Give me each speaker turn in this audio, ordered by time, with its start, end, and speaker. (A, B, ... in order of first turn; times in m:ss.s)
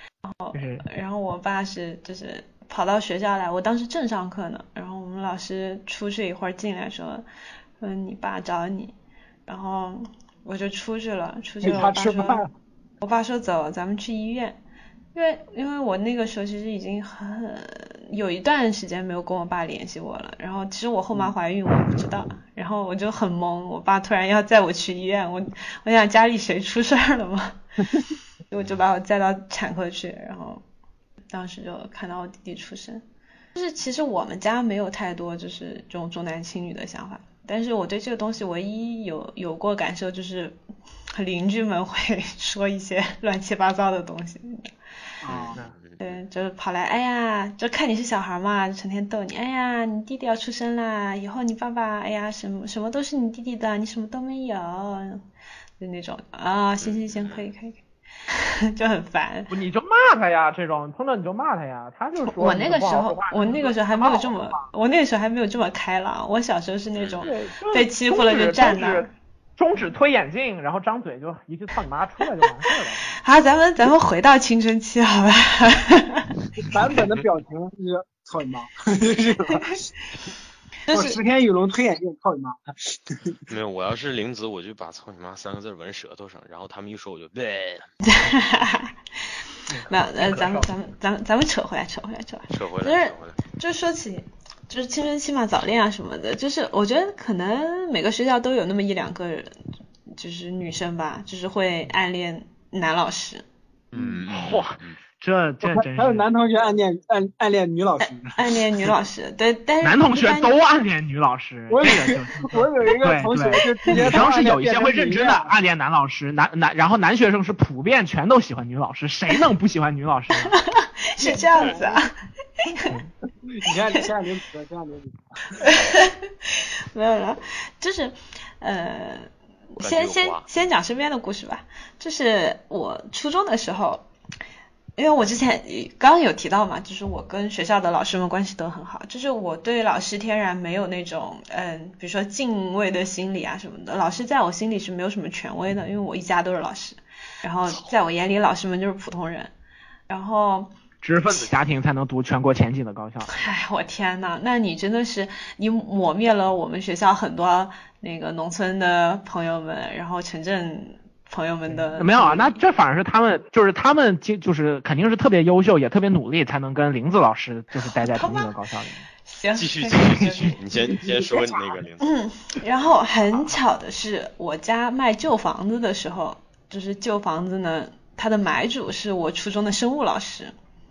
0:00.2-0:07.2 A
0:00.5-0:00.8 B
0:07.8-0:08.9 A
0:09.5-0:12.4 A
0:11.6-0:12.5 C
0:13.0-0:14.6 A
0:15.1-0:27.6 A
0:28.5-0:30.6 A
0:31.3-0:33.0 A
0:33.5-0:40.6 A
0:41.1-0:44.7 A
0:45.2-0:45.6 C
0:45.3-0:46.2 D
0:46.0-0:55.2 A
0:55.8-0:59.5 A
0:56.8-0:57.5 D
0:59.5-1:04.6 B
1:02.4-1:09.1 A
1:07.0-1:07.3 D
1:07.2-1:13.2 B
1:13.2-1:16.3 A
1:16.6-1:19.9 C
1:20.9-1:21.2 A
1:20.9-1:23.4 C
1:23.5-1:27.9 D
1:28.0-1:28.9 A
1:29.7-1:30.6 C
1:29.9-1:39.5 A
1:32.5-1:33.4 D
1:40.2-1:43.4 A
1:43.9-1:45.0 D
1:44.3-1:46.2 B
1:45.6-1:48.9 C
1:48.4-1:50.5 A
1:49.8-2:00.6 B
1:51.7-1:55.5 C
2:00.7-2:02.1 A
2:01.2-2:02.0 C
2:03.5-2:05.6 C
2:05.6-2:14.1 A
2:09.8-2:10.5 D
2:15.0-2:29.5 A
2:30.1-2:30.7 A
2:31.0-2:33.5 B
2:33.3-2:42.6 A
2:41.7-2:49.1 B
2:47.9-2:48.5 A
2:49.2-2:51.4 A
2:49.5-2:52.1 D
2:52.0-3:00.5 A